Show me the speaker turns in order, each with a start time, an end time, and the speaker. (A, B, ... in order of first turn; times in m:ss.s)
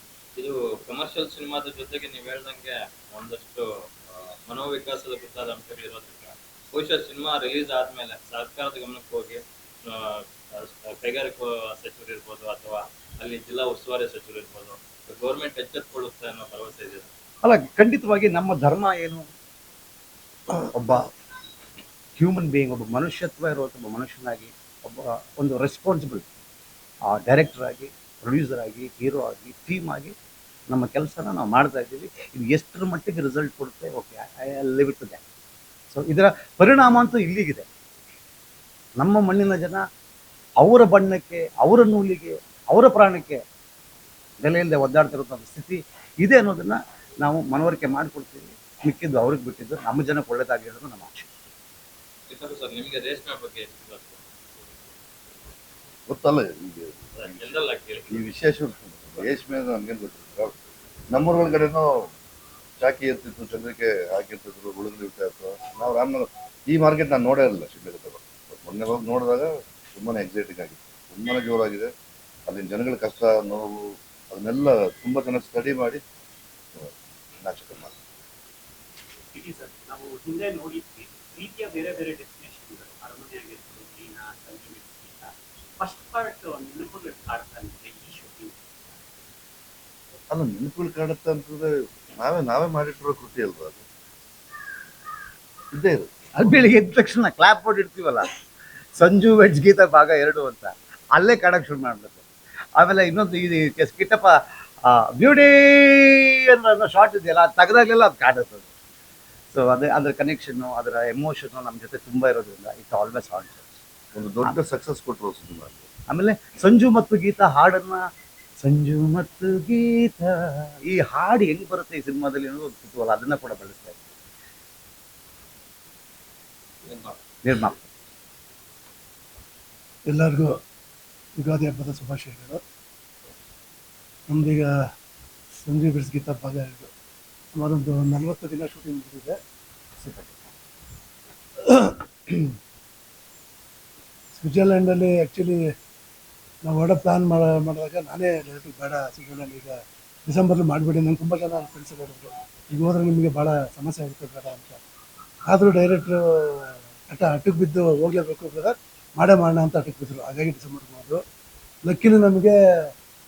0:00.4-0:03.7 A
0:04.5-0:17.1 A
0:17.4-0:19.2 B
0:20.7-0:21.1 B
0:22.2-0:26.2 B
0:27.1-0:30.1 B
0:30.7-0:35.2 B
0:35.9-0:37.6 B
0:39.0-0:39.8 B
0:40.6-0:43.4 B
0:44.4-0:51.3 B
0:52.3-0:54.3 A
0:56.1-0:57.6 C
0:57.2-0:58.3 A
0:58.1-1:00.5 C
1:01.1-1:01.9 C
1:02.8-1:11.9 C
1:12.5-1:16.0 C
1:16.8-1:17.9 C
1:19.3-1:28.6 D
1:30.3-1:33.8 C
1:35.7-1:36.1 C
1:36.4-1:38.3 B
1:39.0-1:42.2 B
1:42.8-1:48.7 B
1:49.5-1:53.8 B
1:54.1-1:55.9 C
1:56.1-1:58.1 B
1:58.6-2:04.0 B
2:06.9-2:07.2 A
2:07.4-2:07.8 B
2:10.1-2:10.6 E
2:11.4-2:12.6 E
2:14.3-2:14.7 E
2:15.6-2:16.9 E
2:17.5-2:19.4 E
2:20.0-2:20.5 B
2:21.6-2:22.6 E
2:24.4-2:25.7 E
2:26.6-2:34.8 E
2:35.5-2:41.2 E
2:41.8-2:42.9 E